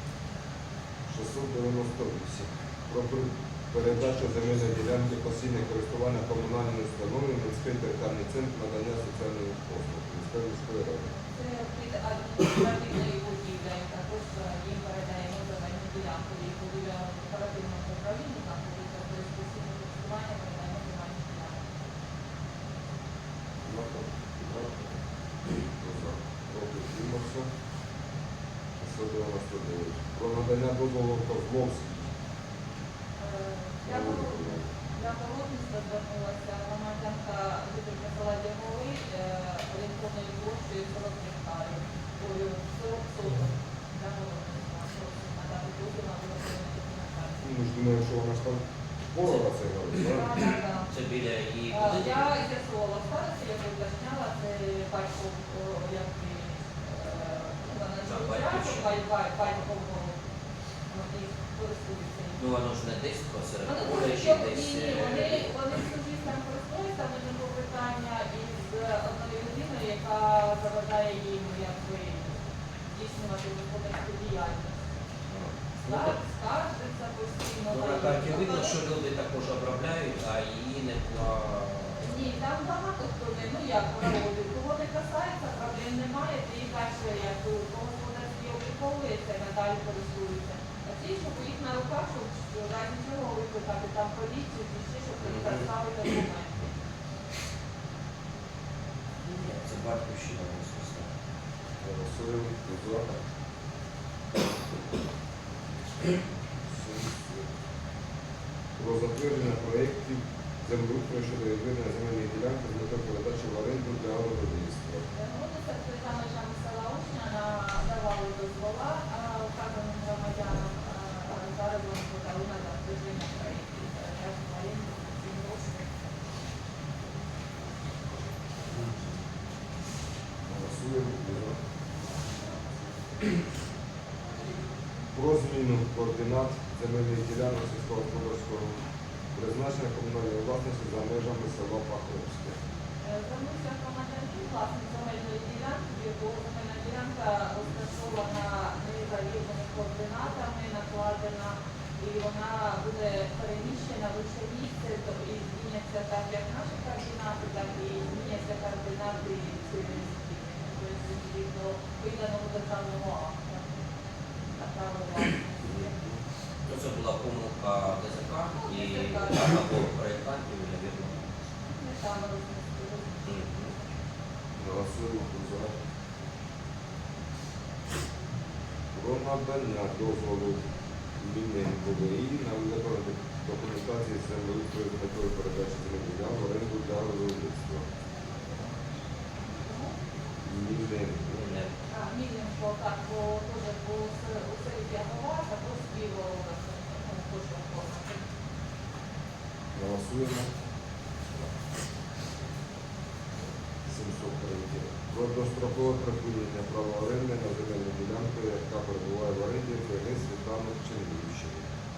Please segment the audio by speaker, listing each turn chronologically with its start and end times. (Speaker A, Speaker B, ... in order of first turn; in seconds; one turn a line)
Speaker A: 1.1-11.1
Speaker B: 11.2-21.6
Speaker A: 23.6-24.1
Speaker A: 25.8-27.5
Speaker A: 28.8-32.1
Speaker B: 33.2-47.4
Speaker A: 33.9-34.7
Speaker A: 47.4-50.3
Speaker B: 49.9-50.9
Speaker C: 50.9-52.3
Speaker B: 51.7-60.2
Speaker C: 58.0-59.7
Speaker B: 60.9-62.4
Speaker C: 62.4-65.6
Speaker B: 63.6-72.4
Speaker B: 72.9-74.8
Speaker C: 75.3-76.2
Speaker B: 75.8-78.8
Speaker C: 77.7-82.1
Speaker B: 82.0-96.6
Speaker C: 95.2-95.7
Speaker C: 99.2-101.1
Speaker A: 101.8-103.1
Speaker A: 106.7-107.5
Speaker A: 108.8-115.0
Speaker B: 115.1-125.9
Speaker A: 130.4-131.6
Speaker A: 135.1-138.8
Speaker A: 139.3-142.6
Speaker B: 143.0-163.8
Speaker B: 164.6-165.9
Speaker C: 166.7-171.3
Speaker B: 168.6-169.7
Speaker B: 171.7-173.3
Speaker C: 173.3-173.7
Speaker A: 174.6-175.8
Speaker A: 178.9-180.6
Speaker A: 181.2-187.9
Speaker B: 189.6-189.9
Speaker A: 190.4-191.4
Speaker C: 191.3-191.8
Speaker B: 191.9-198.2
Speaker A: 199.7-200.5
Speaker A: 203.8-211.7